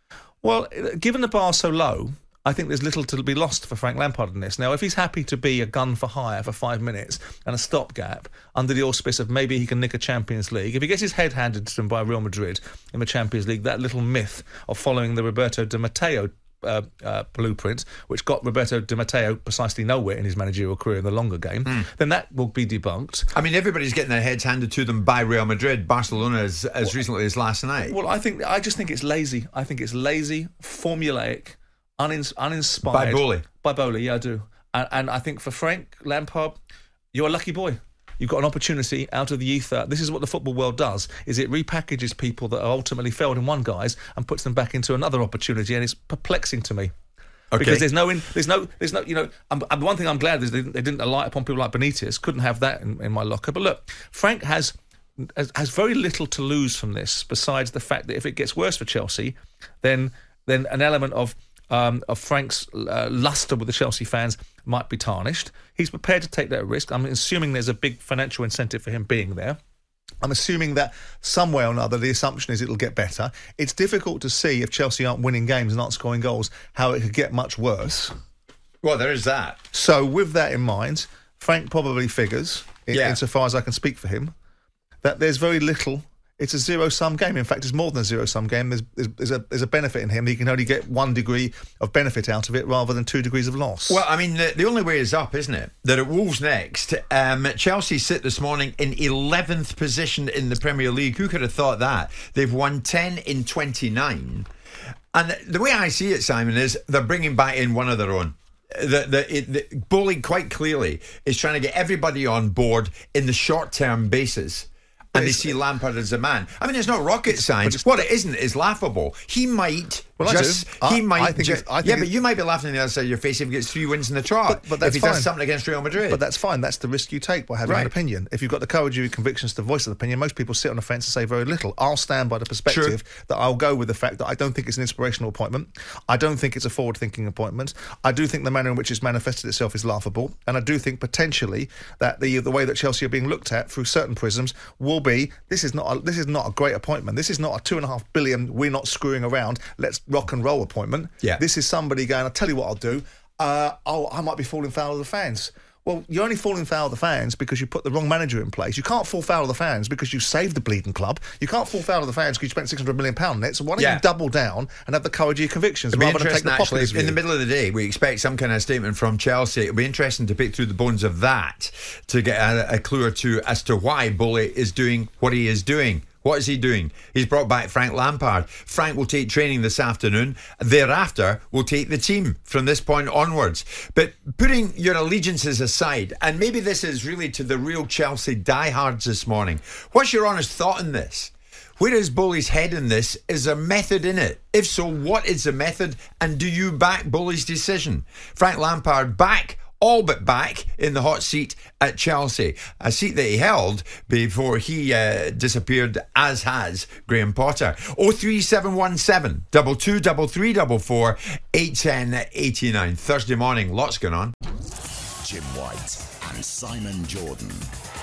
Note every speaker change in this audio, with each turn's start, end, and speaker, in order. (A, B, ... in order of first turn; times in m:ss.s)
0:00.4-0:23.3 A
0:23.3-0:27.9 B
0:27.9-0:36.6 A
0:32.8-0:33.4 B
0:37.1-0:46.9 A
0:47.5-0:47.8 B
0:47.6-1:09.6 A
1:10.2-1:18.1 A
1:18.8-1:19.6 B
1:19.7-1:24.3 A
1:22.9-1:23.2 B
1:25.0-1:34.0 A
1:33.9-1:44.5 B
1:45.1-2:06.2 B
1:55.1-1:55.5 A
1:57.3-1:58.1 A
2:00.2-2:02.1 A
2:04.5-2:05.3 A
2:06.0-2:47.2 A
2:07.6-2:07.9 B
2:12.7-2:13.0 B
2:43.8-2:44.0 B
2:45.9-3:34.3 B
3:35.2-3:37.7 C